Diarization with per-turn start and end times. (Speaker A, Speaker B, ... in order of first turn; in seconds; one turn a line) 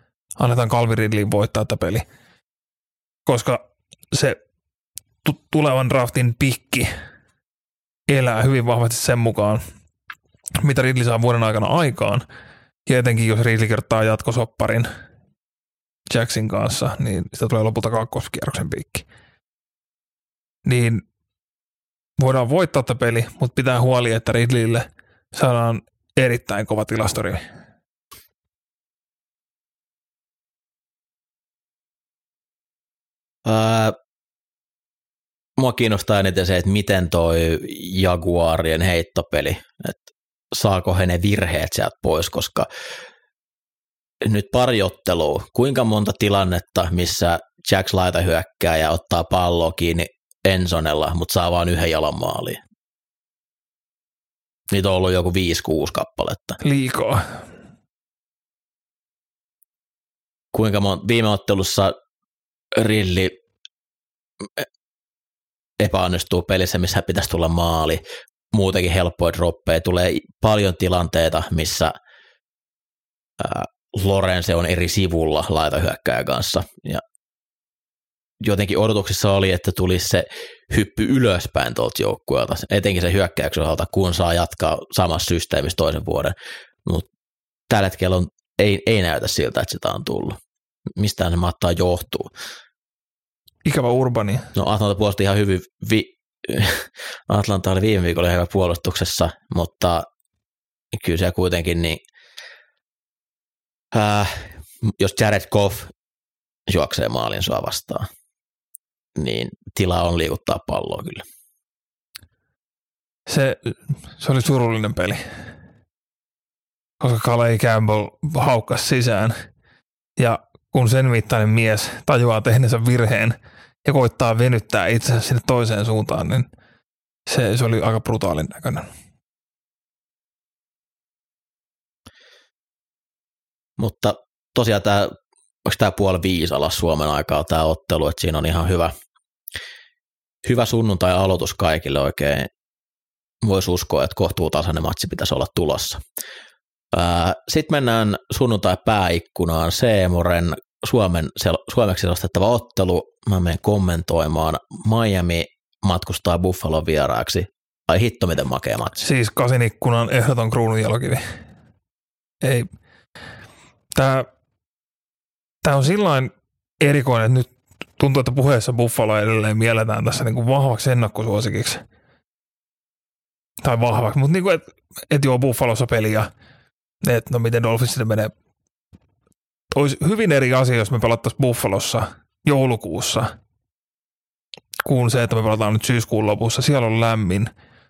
Speaker A: 0.4-2.0
Speaker A: 3.3-4.4
Speaker A: 5.2-6.9
Speaker A: 8.1-9.6
Speaker A: 10.6-12.2
Speaker A: 12.9-14.9
Speaker A: 16.1-19.1
Speaker A: 20.6-21.0
Speaker A: 22.2-27.4
Speaker B: 33.5-34.0
Speaker B: 35.6-42.7
Speaker B: 44.2-52.6
Speaker B: 54.7-56.6
Speaker A: 56.6-57.4
Speaker B: 60.5-62.0
Speaker B: 62.7-63.4
Speaker B: 65.8-68.0
Speaker B: 68.5-71.9
Speaker B: 73.4-77.0
Speaker B: 78.4-87.1
Speaker B: 87.7-90.4
Speaker B: 91.0-92.3
Speaker A: 93.7-94.5
Speaker B: 94.5-100.1
Speaker B: 100.9-102.0
Speaker B: 103.9-105.9
Speaker B: 106.7-108.1
Speaker B: 109.2-111.2
Speaker A: 113.3-115.3
Speaker A: 117.0-119.3
Speaker A: 120.2-126.5
Speaker A: 127.3-128.9
Speaker B: 133.8-138.9
Speaker B: 140.4-142.5
Speaker B: 143.4-146.0
Speaker B: 146.9-159.1
Speaker A: 159.0-161.4
Speaker A: 162.4-162.7
Speaker A: 163.9-164.3
Speaker A: 165.6-171.8
Speaker A: 173.6-176.3
Speaker A: 177.0-178.3
Speaker A: 179.7-183.3
Speaker A: 184.8-187.5